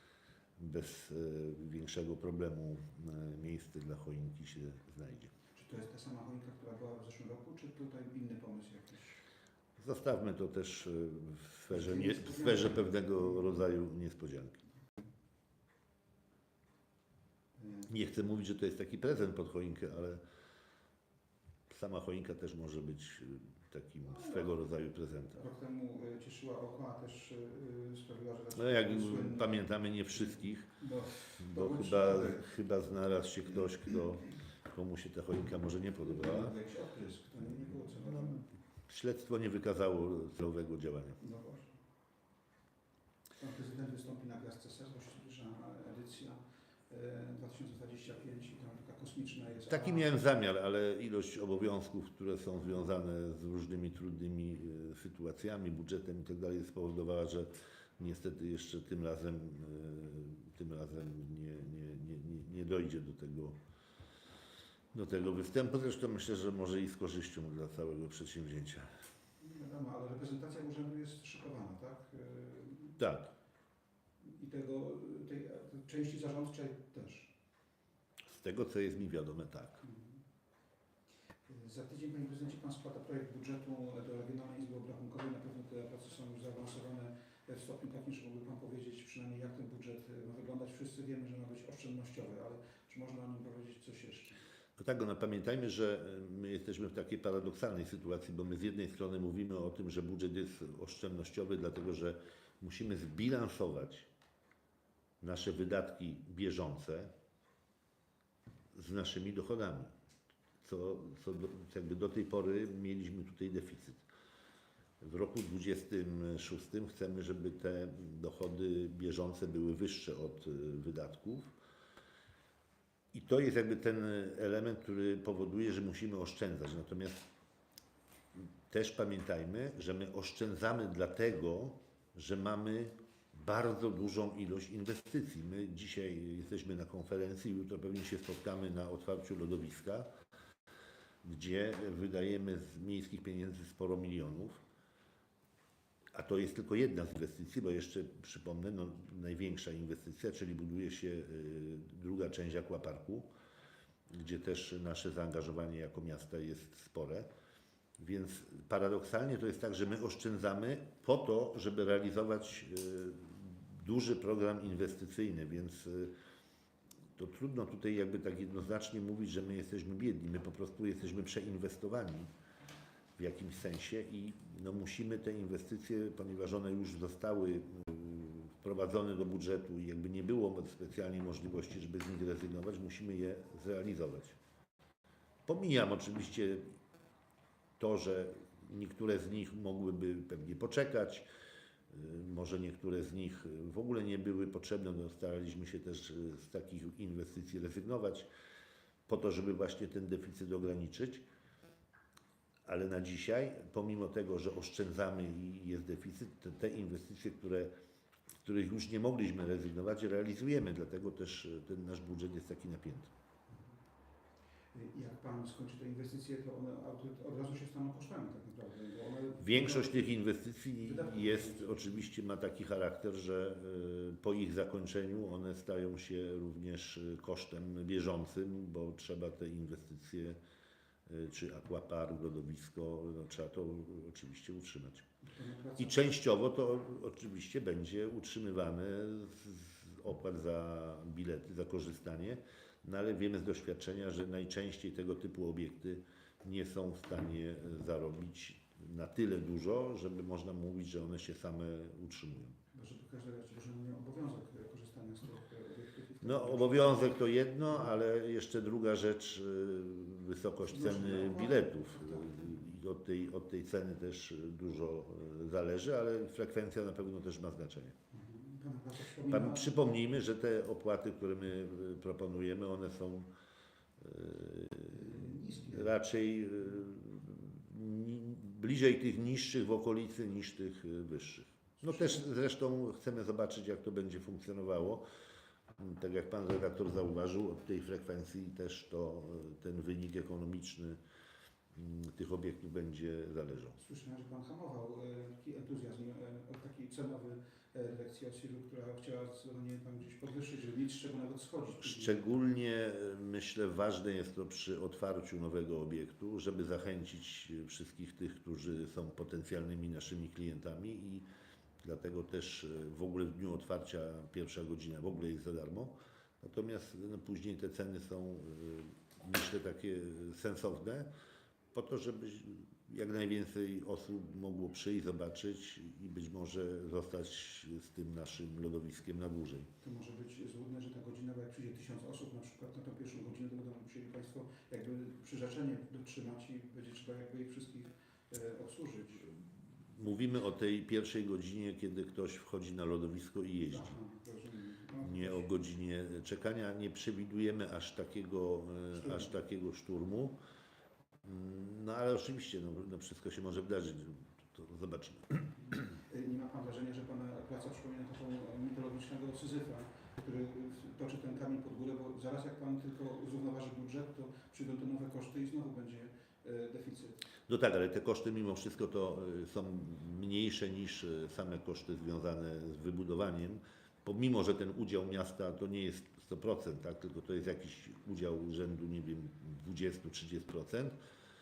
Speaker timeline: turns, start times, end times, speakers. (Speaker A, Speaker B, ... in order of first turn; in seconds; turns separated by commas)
Speaker A: 0.6-5.3, Speaker B: 5.5-9.2, Speaker A: 9.8-14.6, Speaker B: 11.7-13.5, Speaker B: 17.6-17.9, Speaker A: 17.9-20.2, Speaker A: 21.7-25.4, Speaker B: 24.1-24.4, Speaker B: 25.3-29.5, Speaker A: 28.6-30.7, Speaker B: 30.8-32.5, Speaker A: 31.4-36.5, Speaker B: 36.0-38.5, Speaker A: 38.9-41.2, Speaker B: 41.2-41.8, Speaker B: 43.4-50.1, Speaker A: 49.7-63.6, Speaker A: 64.9-69.0, Speaker B: 69.4-73.0, Speaker A: 73.0-73.3, Speaker B: 74.2-77.3, Speaker A: 78.3-79.8, Speaker B: 79.8-80.2, Speaker B: 81.5-94.4, Speaker A: 94.8-104.1, Speaker A: 105.2-107.1, Speaker A: 108.7-109.9, Speaker A: 110.6-114.0, Speaker A: 115.0-121.5, Speaker A: 123.1-127.3, Speaker A: 128.4-140.1, Speaker A: 141.2-144.6, Speaker A: 146.1-153.3, Speaker A: 154.1-157.3, Speaker A: 158.0-166.1, Speaker A: 167.2-172.3, Speaker A: 173.2-184.4, Speaker A: 185.5-186.8, Speaker A: 187.8-191.3, Speaker A: 191.9-198.3, Speaker A: 199.1-201.2, Speaker A: 202.7-207.7, Speaker A: 208.4-213.1, Speaker B: 213.5-213.8, Speaker B: 214.7-220.0, Speaker A: 219.4-230.4, Speaker B: 220.8-221.9, Speaker A: 231.1-235.1, Speaker B: 235.2-236.1, Speaker A: 235.8-252.6, Speaker B: 252.7-257.2, Speaker A: 256.2-267.9, Speaker B: 260.6-262.4, Speaker B: 268.1-269.8, Speaker A: 269.3-273.3, Speaker A: 274.0-285.1, Speaker B: 274.9-275.9, Speaker B: 281.8-282.3, Speaker A: 285.8-291.0, Speaker A: 291.7-293.8, Speaker B: 293.8-302.3, Speaker A: 301.8-311.3, Speaker A: 311.8-321.1, Speaker A: 321.7-329.7, Speaker B: 329.8-339.4, Speaker A: 339.9-343.9, Speaker B: 343.7-345.5, Speaker A: 345.0-350.4, Speaker B: 348.9-349.3, Speaker A: 351.2-355.5, Speaker B: 356.0-367.2, Speaker A: 367.5-381.0